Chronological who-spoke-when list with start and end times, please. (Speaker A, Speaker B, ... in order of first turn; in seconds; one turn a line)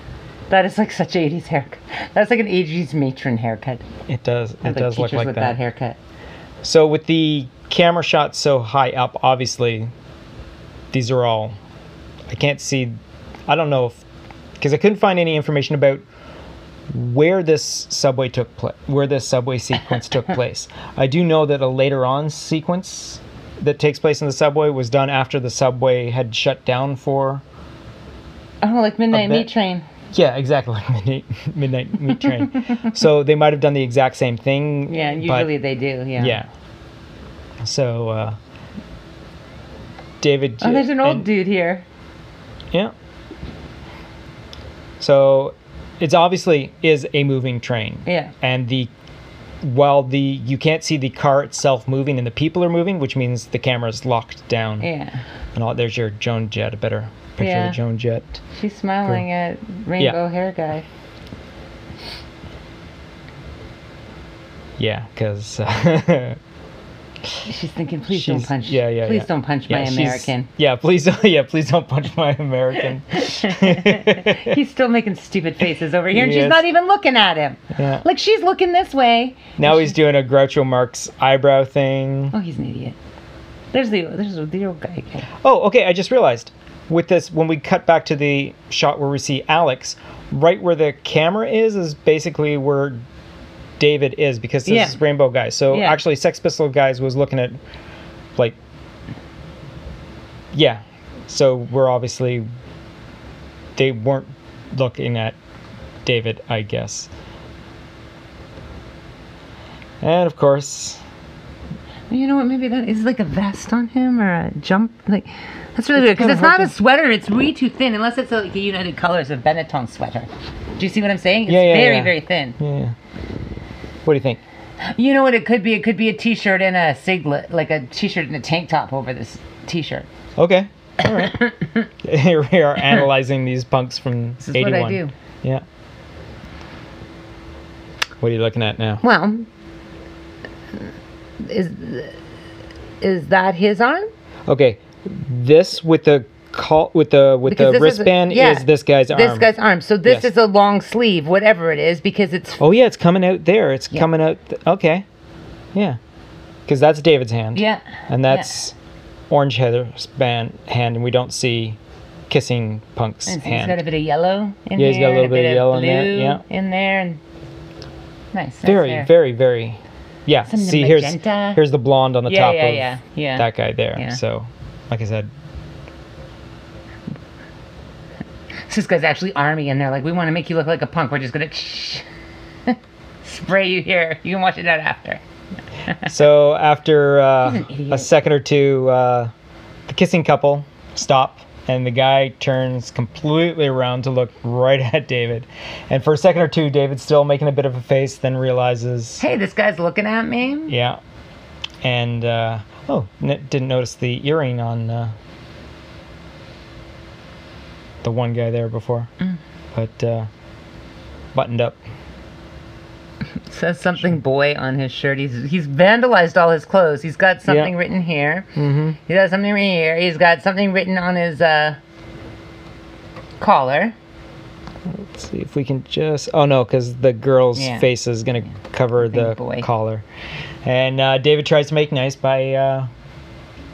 Speaker A: 0.5-3.9
Speaker B: 4.1-5.6
Speaker A: 4.6-6.0
Speaker B: 6.6-9.9
Speaker B: 10.9-11.6
Speaker B: 12.3-13.0
Speaker B: 13.5-14.0
Speaker B: 14.6-16.0
Speaker B: 16.9-27.4
Speaker A: 28.6-29.9
Speaker B: 29.1-29.5
Speaker B: 30.1-35.5
Speaker A: 34.9-36.4
Speaker B: 36.2-36.5
Speaker B: 37.6-38.4
Speaker B: 40.2-41.3
Speaker A: 40.6-41.9
Speaker B: 45.0-48.9
Speaker A: 48.1-48.3
Speaker B: 49.6-54.9
Speaker A: 54.8-55.2
Speaker B: 55.5-58.4
Speaker A: 57.4-57.8
Speaker A: 58.5-60.9
Speaker B: 64.8-66.4
Speaker A: 67.5-70.5
Speaker B: 68.1-74.6
Speaker A: 73.1-79.9
Speaker B: 76.1-76.7
Speaker B: 77.7-78.0
Speaker B: 79.6-82.3
Speaker A: 82.3-83.0
Speaker A: 83.7-85.3
Speaker B: 85.4-93.0
Speaker B: 93.8-97.6
Speaker A: 94.7-95.0
Speaker A: 95.7-96.0
Speaker B: 100.5-102.5
Speaker B: 103.8-105.4
Speaker B: 106.0-107.1
Speaker B: 110.0-111.0
Speaker A: 112.1-122.6
Speaker B: 116.0-116.7
Speaker B: 121.5-123.0
Speaker B: 124.0-124.4
Speaker A: 124.8-130.1
Speaker B: 130.4-131.5
Speaker A: 131.0-131.8
Speaker B: 132.0-135.6
Speaker A: 134.4-135.1
Speaker B: 138.2-139.0
Speaker A: 139.0-139.5
Speaker A: 141.4-142.2
Speaker A: 143.0-144.1
Speaker B: 144.5-149.5
Speaker A: 147.4-152.6
Speaker B: 152.6-155.1
Speaker B: 156.7-158.8
Speaker A: 157.6-158.6
Speaker B: 159.3-161.8
Speaker B: 162.3-163.8
Speaker A: 163.3-167.2
Speaker B: 164.8-166.4
Speaker A: 168.3-169.1
Speaker B: 168.6-175.3
Speaker A: 170.5-171.6
Speaker A: 172.3-174.2
Speaker A: 178.7-182.1
Speaker A: 182.7-185.2
Speaker B: 186.1-189.3
Speaker A: 187.4-188.1
Speaker B: 189.9-199.2
Speaker A: 199.2-200.7
Speaker B: 200.7-201.0
Speaker B: 201.8-205.2
Speaker B: 208.0-209.1
Speaker B: 209.7-210.3
Speaker B: 211.3-211.8
Speaker A: 213.5-218.5
Speaker B: 217.5-217.7
Speaker B: 218.6-219.0
Speaker A: 219.1-221.8
Speaker A: 223.4-223.9
Speaker B: 224.9-230.1
Speaker A: 227.6-227.9
Speaker A: 229.0-229.7
Speaker B: 230.7-232.9